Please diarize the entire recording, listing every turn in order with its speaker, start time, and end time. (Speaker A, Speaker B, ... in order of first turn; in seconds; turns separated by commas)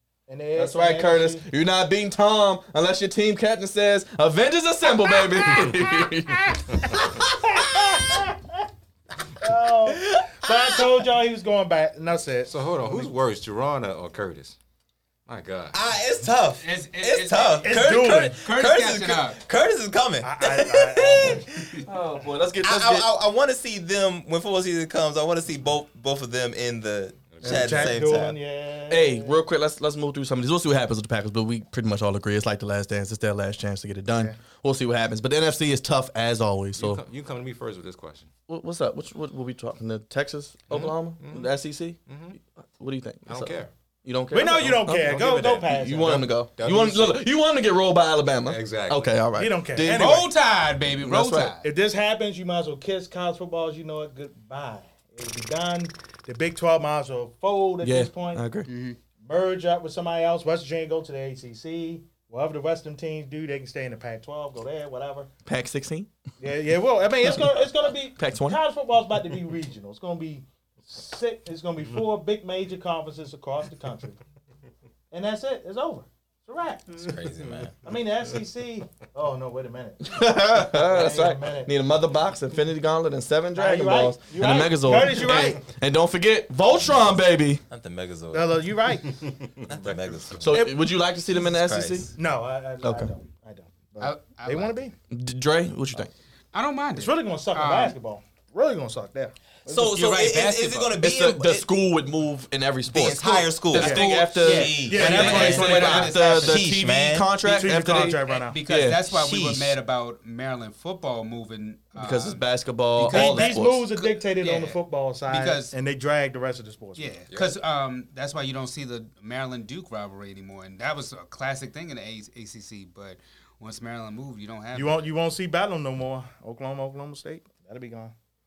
Speaker A: 0.3-1.4, Speaker B: 0.6-7.2, Speaker A: 6.9-8.6, Speaker A: 9.4-13.1, Speaker C: 9.9-10.8, Speaker D: 12.5-14.6, Speaker D: 15.2-15.8, Speaker C: 15.7-21.8, Speaker E: 16.6-19.4, Speaker A: 17.6-18.4, Speaker A: 20.2-21.5, Speaker B: 21.8-23.1, Speaker C: 22.6-28.4, Speaker D: 27.3-28.0, Speaker A: 27.4-29.4, Speaker B: 28.9-37.0, Speaker D: 36.8-38.3, Speaker B: 38.5-42.0, Speaker D: 40.7-41.5, Speaker D: 42.0-42.4, Speaker B: 42.5-50.1, Speaker D: 43.2-43.7, Speaker A: 44.3-46.3, Speaker D: 45.0-47.2, Speaker D: 48.4-49.1, Speaker A: 49.4-50.3, Speaker E: 49.8-51.7, Speaker B: 51.0-51.5, Speaker A: 51.6-58.4, Speaker B: 57.8-58.7, Speaker E: 58.7-59.0, Speaker A: 59.2-65.3, Speaker B: 65.5-66.1, Speaker A: 66.4-74.2, Speaker B: 67.2-67.6, Speaker B: 68.2-68.6, Speaker A: 75.1-77.1, Speaker C: 77.0-77.8, Speaker A: 77.8-81.7, Speaker B: 80.0-87.6, Speaker A: 83.5-85.6, Speaker C: 87.7-88.6, Speaker A: 88.3-89.2, Speaker D: 89.1-90.4, Speaker C: 89.7-90.6, Speaker B: 90.4-92.1, Speaker C: 91.3-92.1, Speaker A: 92.2-94.9, Speaker B: 92.8-93.1, Speaker E: 94.0-94.8, Speaker B: 95.1-96.1, Speaker E: 96.5-97.9, Speaker A: 96.9-99.9, Speaker C: 99.7-101.7, Speaker E: 99.7-101.0, Speaker B: 101.0-103.2, Speaker C: 102.9-107.3, Speaker E: 103.0-106.7, Speaker B: 103.7-109.0, Speaker A: 103.7-104.0, Speaker A: 104.8-106.1, Speaker A: 107.4-108.6, Speaker E: 108.3-115.7, Speaker C: 109.0-109.8, Speaker B: 112.0-113.8, Speaker A: 113.1-117.1, Speaker E: 117.0-125.0, Speaker A: 124.7-128.1